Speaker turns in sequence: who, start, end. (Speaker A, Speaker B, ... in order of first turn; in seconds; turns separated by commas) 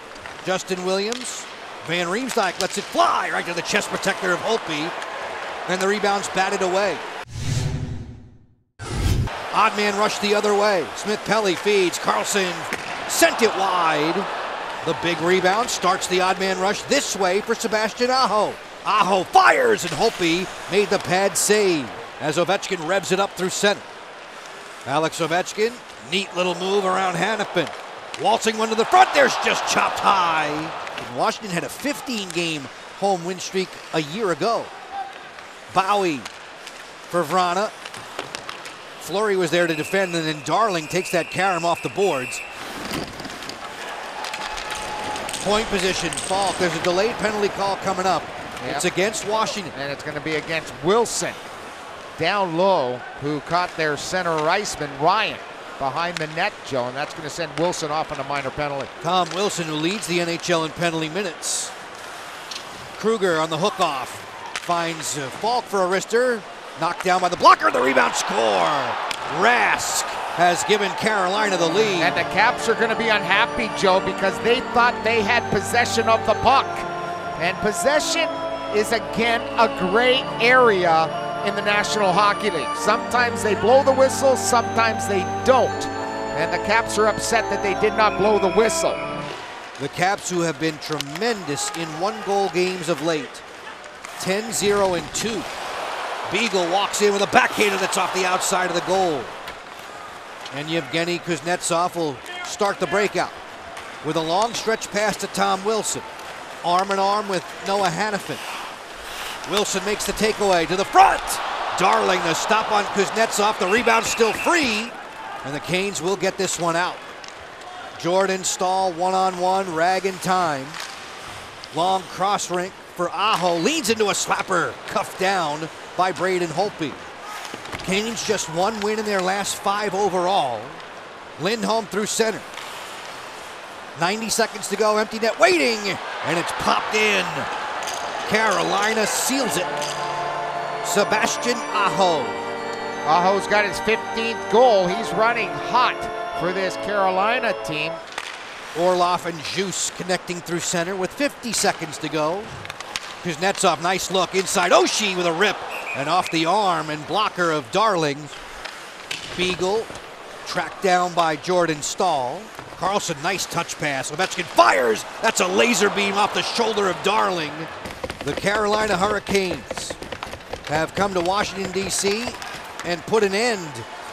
Speaker A: 0.4-5.0, Speaker A: 5.7-7.0, Speaker A: 9.5-14.3, Speaker A: 14.8-23.9, Speaker A: 24.9-34.7, Speaker A: 35.7-36.3, Speaker A: 37.1-37.7, Speaker A: 39.0-42.4, Speaker A: 45.4-49.8, Speaker B: 48.6-48.9, Speaker B: 49.7-51.4, Speaker B: 52.2-58.9, Speaker A: 59.0-61.7, Speaker A: 63.0-72.2, Speaker B: 72.0-89.1, Speaker A: 89.8-93.5, Speaker A: 94.2-95.5, Speaker A: 96.3-99.4, Speaker A: 100.5-103.4, Speaker A: 104.0-106.1, Speaker A: 106.6-108.4, Speaker A: 109.5-117.0, Speaker A: 118.0-120.8, Speaker A: 121.7-127.1, Speaker A: 127.8-130.8, Speaker A: 131.4-132.5, Speaker A: 134.0-137.5, Speaker A: 138.2-139.8, Speaker A: 140.8-142.4, Speaker B: 143.1-148.0, Speaker A: 148.7-152.5, Speaker A: 153.2-158.4, Speaker A: 159.3-167.7, Speaker A: 168.2-170.0, Speaker A: 170.7-173.9